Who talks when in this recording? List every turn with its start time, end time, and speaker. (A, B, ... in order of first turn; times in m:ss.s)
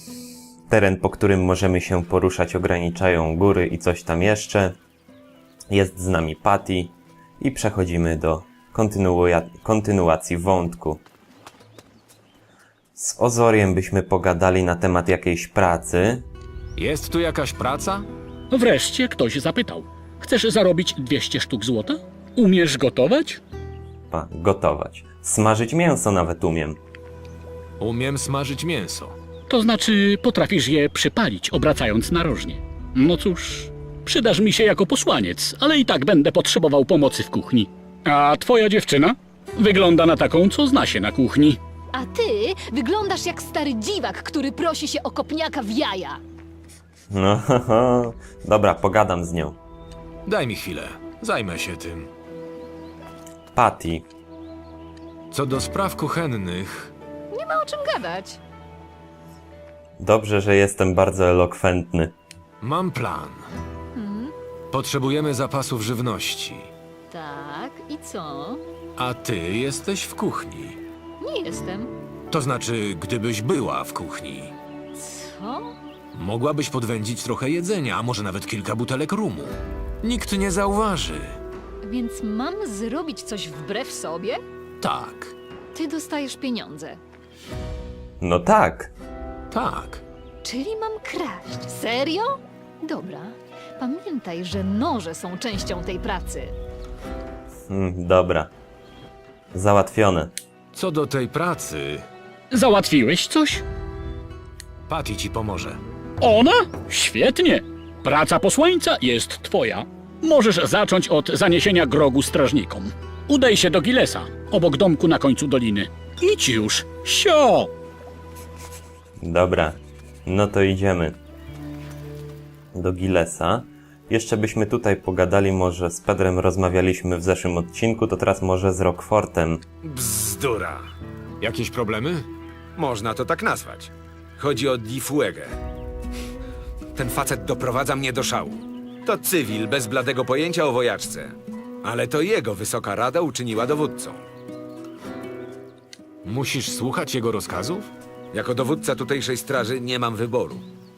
0:00.7-0:04.8 A
0:05.7-0:11.0 A
0:13.0-0:16.2 A
0:16.8-0:18.1 B
0:18.5-0:23.4 C
0:24.1-0:26.8 A
0:27.8-0:29.2 B
0:29.5-0:41.6 C
0:42.0-0:46.2 D
0:47.1-0:49.6 A
0:50.3-0:52.1 B
0:53.5-0:54.0 A
0:55.3-0:56.9 B
0:57.3-0:58.4 D
1:00.0-1:02.1 A
1:02.6-1:03.4 B
1:04.0-1:04.3 D
1:04.7-1:06.7 B
1:07.1-1:08.6 D
1:09.0-1:10.8 B
1:11.2-1:11.9 D
1:12.3-1:14.6 B
1:15.0-1:15.7 D
1:16.1-1:21.4 B
1:21.8-1:24.4 D
1:24.8-1:25.3 B
1:25.7-1:27.0 D
1:28.2-1:28.9 A
1:29.5-1:30.0 B
1:30.4-1:36.6 D
1:37.7-1:38.5 A
1:39.5-1:40.3 A
1:40.7-1:42.1 B
1:42.5-1:43.6 C
1:44.9-1:45.8 B
1:46.2-1:57.7 C
1:59.2-2:01.2 A
2:02.7-2:09.6 A
2:10.0-2:10.4 E
2:11.4-2:12.3 B
2:12.8-2:13.9 E
2:14.6-2:15.4 E
2:17.2-2:21.3 E
2:21.9-2:24.2 E
2:26.2-2:27.9 B
2:28.3-2:30.6 E